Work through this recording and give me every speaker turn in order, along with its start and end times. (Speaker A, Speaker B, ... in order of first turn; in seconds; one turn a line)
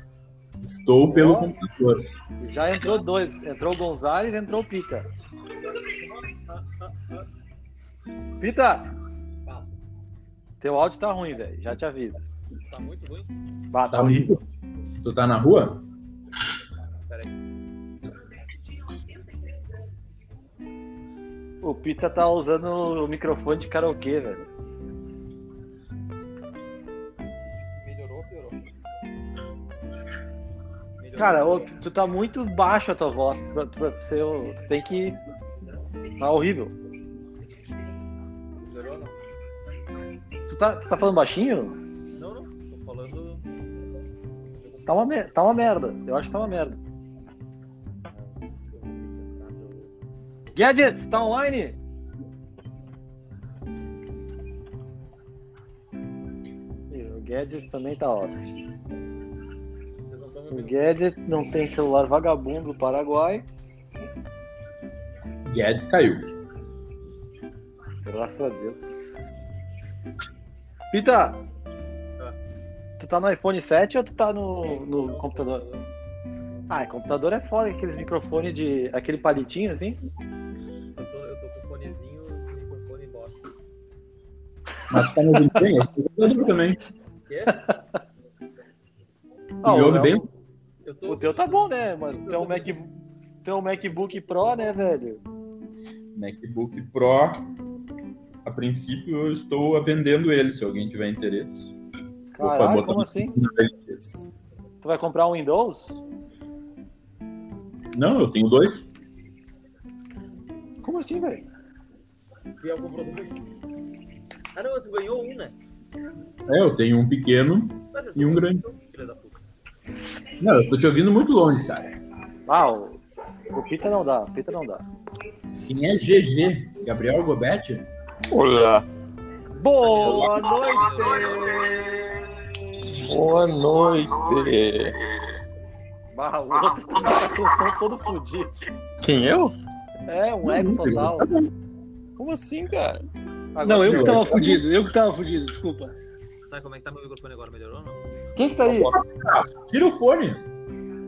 Speaker A: 0.6-2.0
Speaker B: 1.1-1.5
Speaker B: 2.4-5.0
Speaker B: 8.4-8.9
Speaker B: 10.6-12.3
Speaker C: 12.7-13.2
Speaker B: 13.7-14.4
Speaker A: 13.9-14.4
Speaker A: 15.0-15.8
Speaker B: 21.6-24.5
Speaker C: 27.8-28.6
Speaker C: 31.0-31.3
Speaker B: 31.2-35.2
Speaker B: 36.2-36.8
Speaker C: 38.7-39.1
Speaker B: 40.5-41.8
Speaker B: 44.9-46.8
Speaker C: 48.7-49.9
Speaker B: 50.5-51.8
Speaker B: 56.9-58.5
Speaker B: 60.5-63.5
Speaker A: 65.5-66.3
Speaker B: 68.1-69.2
Speaker B: 70.9-71.4
Speaker B: 73.0-75.6
Speaker B: 76.7-80.0
Speaker C: 81.0-83.3
Speaker A: 84.9-86.8
Speaker B: 89.6-90.3
Speaker A: 89.6-90.3
Speaker C: 90.8-91.2
Speaker B: 91.1-92.9
Speaker B: 93.4-95.2
Speaker A: 96.2-97.4
Speaker A: 98.4-101.7
Speaker B: 102.3-103.4
Speaker A: 102.4-104.4
Speaker B: 104.8-106.0
Speaker A: 107.9-108.8
Speaker B: 110.8-111.5
Speaker C: 112.6-113.4
Speaker C: 114.5-115.5
Speaker A: 116.5-118.7
Speaker C: 117.9-119.3
Speaker A: 120.4-122.0
Speaker B: 122.5-123.0
Speaker B: 123.5-124.8
Speaker A: 125.7-127.9
Speaker D: 128.3-128.9
Speaker B: 129.6-131.7
Speaker D: 130.1-131.4
Speaker D: 132.9-135.0
Speaker B: 136.1-138.5
Speaker D: 139.0-139.5
Speaker B: 140.1-141.3
Speaker A: 140.4-141.5
Speaker D: 142.2-143.0
Speaker B: 143.6-144.6
Speaker E: 143.6-145.9
Speaker A: 143.8-144.5
Speaker C: 146.5-148.0
Speaker B: 148.4-149.0
Speaker A: 148.9-150.4